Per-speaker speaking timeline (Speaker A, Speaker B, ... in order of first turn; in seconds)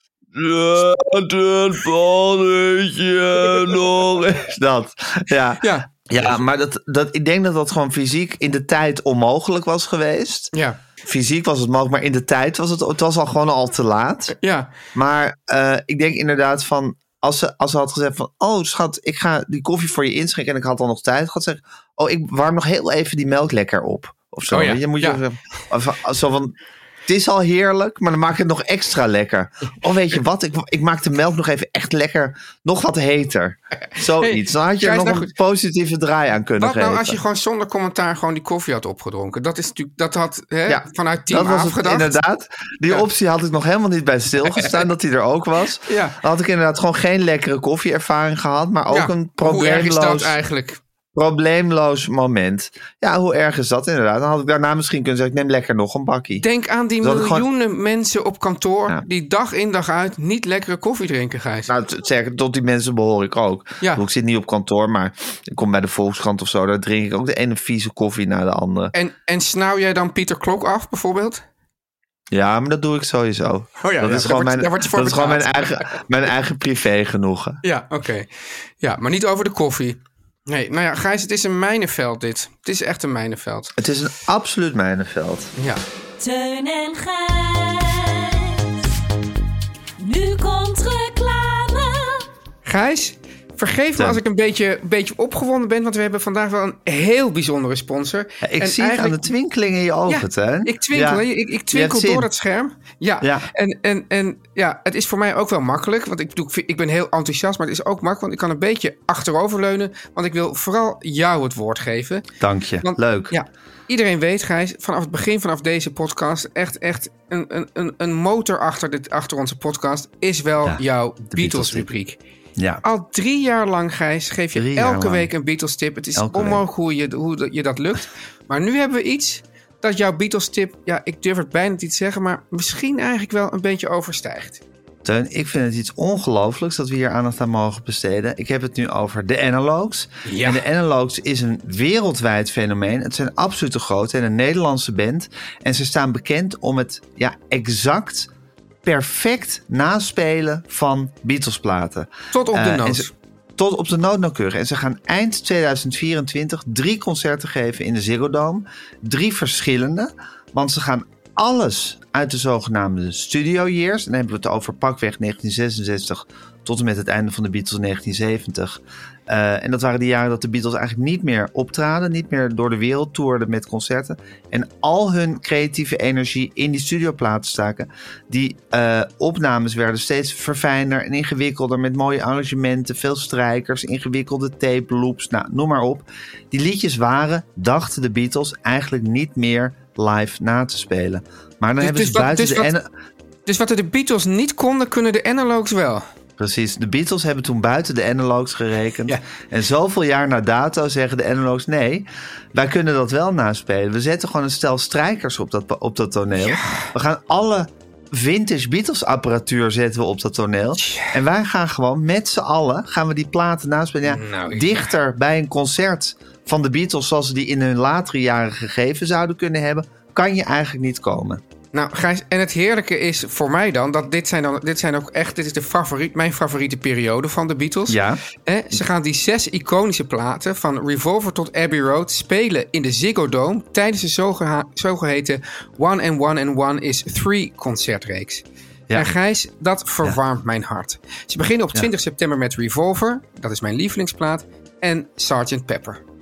Speaker A: 0.3-10.5, 11.0-14.4, 14.9-26.5, 27.1-37.2, 40.7-50.4, 51.1-56.5, 57.0-57.5, 61.7-68.9, 72.3-77.6, 83.8-85.5, 98.4-102.3, 103.2-103.5, 112.4-113.3, 120.7-121.9, 122.6-122.8, 124.5-125.3, 126.2-126.6, 135.0-148.3, 148.8-192.9, 196.4-221.4, 227.9-228.2
Speaker B: 3.5-3.7, 5.6-6.4, 10.5-10.8, 14.4-14.7, 24.5-25.2, 34.2-35.3, 36.6-42.2, 44.5-44.8, 45.9-46.2, 48.9-50.8, 56.4-61.7, 68.9-71.4, 73.8-75.9, 77.6-83.7, 85.6-85.8, 92.7-99.3, 100.1-112.3, 112.8-122.2, 122.8-134.6, 140.2-140.6, 152.3-153.1, 191.8-192.7, 193.5-196.1, 206.3-206.9, 210.8-211.2, 214.1-214.9, 221.7-246.0
Speaker C: 86.2-88.9, 90.0-92.3